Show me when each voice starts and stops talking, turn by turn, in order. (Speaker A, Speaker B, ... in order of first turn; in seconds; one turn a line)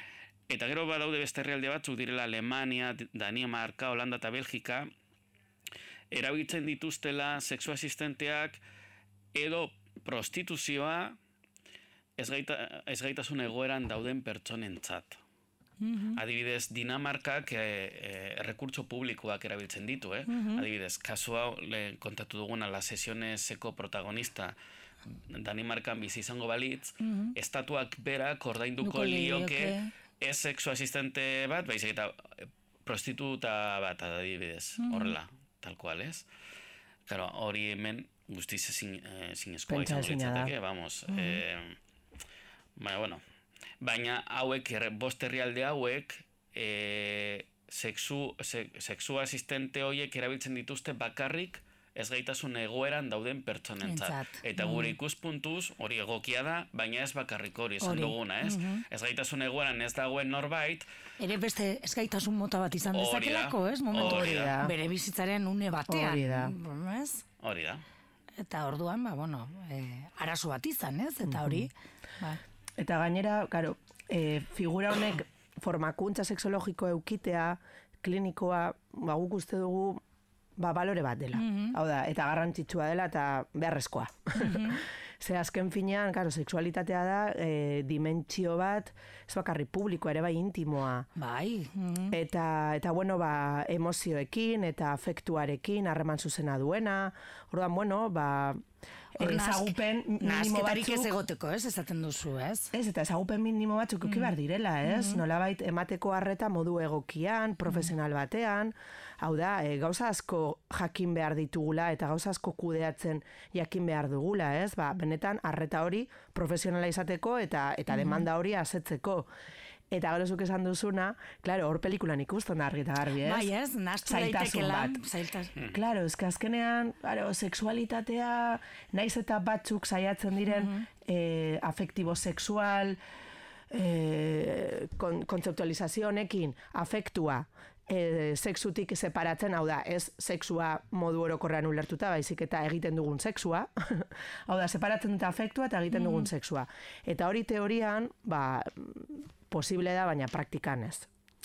Speaker A: 0.5-4.9
Speaker A: 6.1-8.6
Speaker A: 9.3-11.2
Speaker A: 12.2-15.2
Speaker B: 15.8-16.2
Speaker A: 16.1-24.6
Speaker B: 20.3-20.6
Speaker A: 25.3-36.2
Speaker B: 27.0-27.3
Speaker B: 28.8-29.9
Speaker B: 34.8-35.1
Speaker A: 37.1-41.8
Speaker C: 39.7-40.5
Speaker B: 41.1-41.4
Speaker A: 42.8-43.2
Speaker A: 43.8-60.9
Speaker B: 53.8-54.9
Speaker B: 57.8-58.8
Speaker B: 61.2-67.2
Speaker A: 62.9-64.5
Speaker C: 64.0-64.7
Speaker C: 65.9-66.5
Speaker A: 67.4-67.8
Speaker B: 68.4-72.4
Speaker C: 71.2-71.7
Speaker C: 72.8-80.0
Speaker C: 80.6-91.1
Speaker B: 81.3-81.8
Speaker B: 84.3-84.8
Speaker B: 91.1-92.2
Speaker C: 92.1-98.6
Speaker C: 99.2-101.1
Speaker B: 99.2-102.7
Speaker C: 102.7-119.3
Speaker B: 104.0-104.3
Speaker B: 104.8-105.2
Speaker B: 117.9-118.2
Speaker C: 119.9-123.5
Speaker B: 123.2-125.5
Speaker C: 124.0-125.0
Speaker C: 125.7-133.0
Speaker B: 130.5-130.9
Speaker C: 133.7-151.1
Speaker B: 145.9-146.3